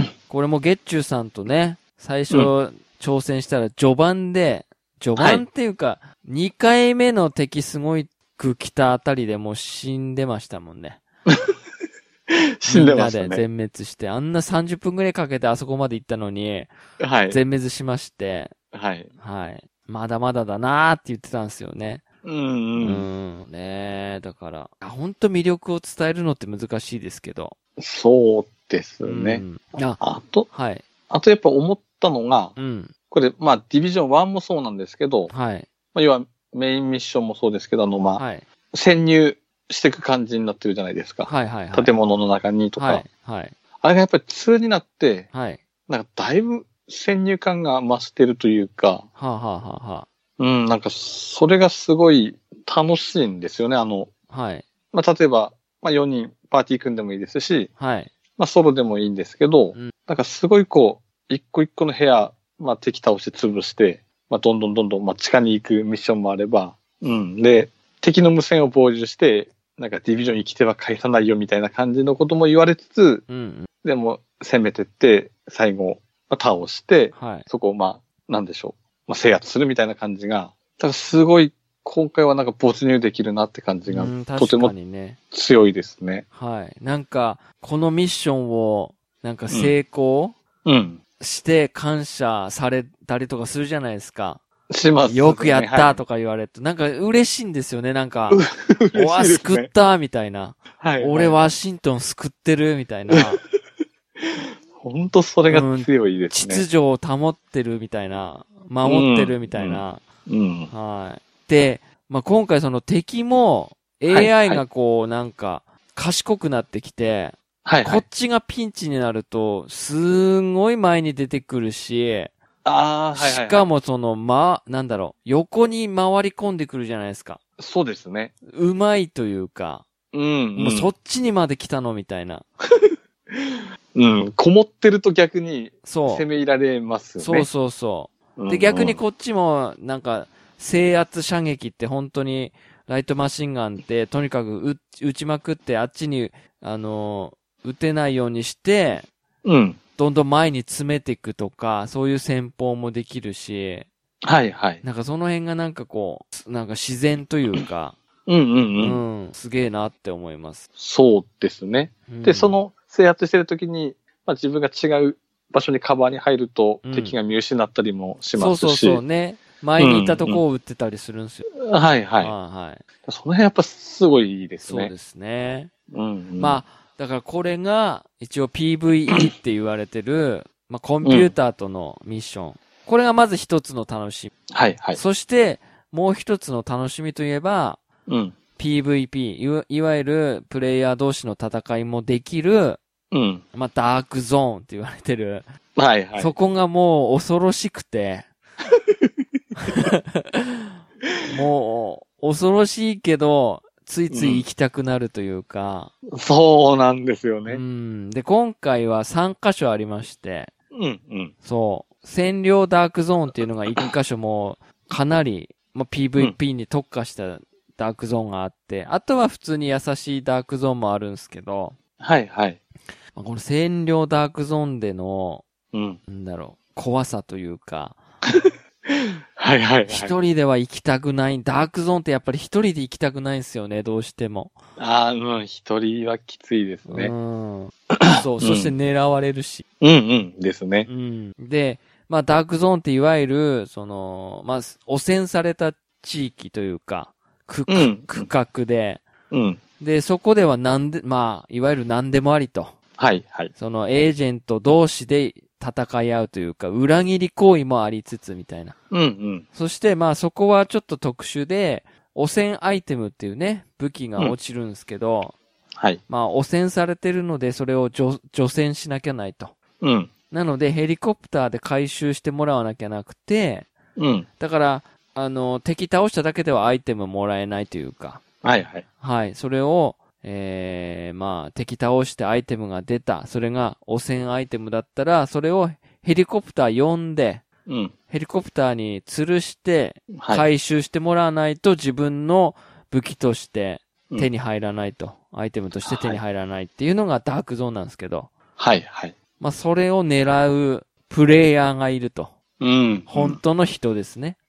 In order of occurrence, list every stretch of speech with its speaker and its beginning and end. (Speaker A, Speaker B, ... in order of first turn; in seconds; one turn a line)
Speaker A: 0.3-11.0
Speaker B: 5.2-5.4
Speaker B: 12.6-13.4
Speaker A: 12.7-16.7
Speaker B: 17.0-17.4
Speaker A: 17.3-18.5
Speaker B: 18.7-19.1
Speaker A: 19.2-22.0
Speaker B: 22.2-23.1
Speaker A: 22.8-27.5
Speaker B: 27.8-29.4
Speaker A: 29.0-30.8
Speaker B: 30.0-30.5
Speaker B: 31.1-32.5
Speaker A: 32.5-32.9
Speaker B: 33.1-35.3
Speaker A: 35.3-35.7
Speaker B: 35.9-43.0
Speaker A: 38.2-38.5
Speaker A: 41.2-41.9
Speaker A: 42.8-43.5
Speaker B: 43.8-45.3
Speaker A: 45.3-45.6
Speaker B: 45.9-49.0
Speaker A: 49.1-50.1
Speaker B: 50.4-54.1
Speaker A: 54.3-54.6
Speaker B: 54.9-57.7
Speaker A: 57.8-58.1
Speaker B: 58.4-73.2
Speaker A: 73.3-73.7
Speaker B: 73.8-84.7
Speaker A: 77.1-77.5
Speaker A: 83.9-85.2
Speaker B: 85.3-86.2
Speaker A: 86.3-90.3
Speaker B: 90.6-91.0
Speaker A: 91.2-94.4
Speaker B: 94.7-96.0
Speaker A: 95.1-103.4
Speaker B: 98.3-99.7
Speaker B: 100.8-101.4
Speaker B: 104.2-106.6
Speaker A: 105.5-110.0
Speaker B: 108.8-110.7
Speaker A: 110.7-122.3
Speaker B: 114.1-114.6
Speaker B: 117.6-118.0
Speaker B: 122.6-123.7
Speaker A: 123.1-127.4
Speaker B: 127.6-128.3
Speaker A: 128.5-129.8
Speaker B: 130.1-130.9
Speaker A: 130.6-132.4
Speaker B: 133.3-137.5
Speaker A: 135.8-136.2
Speaker A: 137.2-149.1
Speaker B: 138.4-139.0
Speaker B: 149.4-149.8
Speaker A: 150.0-153.9
Speaker B: 154.2-154.8
Speaker A: 154.8-158.0
Speaker B: 158.3-159.0
Speaker A: 158.8-160.7
Speaker B: 160.8-169.0
Speaker A: 162.1-162.6
Speaker A: 166.8-167.2
Speaker A: 168.3-171.5
Speaker B: 169.8-170.4
Speaker B: 171.6-172.3
Speaker A: 172.2-172.8
Speaker B: 173.1-174.9
Speaker A: 174.6-175.7
Speaker B: 175.9-176.6
Speaker A: 176.4-184.3
Speaker B: 181.0-181.3
Speaker B: 184.5-185.0
Speaker A: 184.9-187.8
Speaker B: 188.1-188.3
Speaker A: 188.6-192.8
Speaker B: 193.1-193.4
Speaker A: 193.5-195.5
Speaker B: 195.8-196.3
Speaker A: 196.2-198.3
Speaker A: 199.6-205.9
Speaker B: 204.1-204.4
Speaker B: 206.1-207.6
Speaker A: 207.5-210.5
Speaker B: 210.7-211.3
Speaker A: 211.4-221.8
Speaker B: 222.0-222.6
Speaker A: 223.1-225.4
Speaker B: 225.7-226.0
Speaker A: 226.1-228.0
Speaker B: 228.9-230.1
Speaker A: 229.9-234.6
Speaker B: 234.8-237.1
Speaker A: 236.9-239.6
Speaker B: 238.0-238.7
Speaker B: 239.8-240.9
Speaker A: 240.8-249.0
Speaker B: 247.7-248.3
Speaker B: 249.3-249.6
Speaker A: 249.8-252.7
Speaker B: 253.0-253.5
Speaker A: 253.5-258.8
Speaker B: 258.9-259.4
Speaker A: 259.5-265.4
Speaker A: 266.1-269.5
Speaker B: 269.8-270.1
Speaker A: 270.3-273.7
Speaker B: 274.0-274.3
Speaker A: 274.4-278.2
Speaker B: 278.4-278.8
Speaker A: 279.0-287.4
Speaker B: 287.7-287.9
Speaker A: 288.1-298.3
Speaker B: 290.1-290.5
Speaker B: 295.8-296.2
Speaker B: 298.6-299.1
Speaker A: 299.4-302.3
Speaker B: 302.6-303.4
Speaker A: 303.1-304.4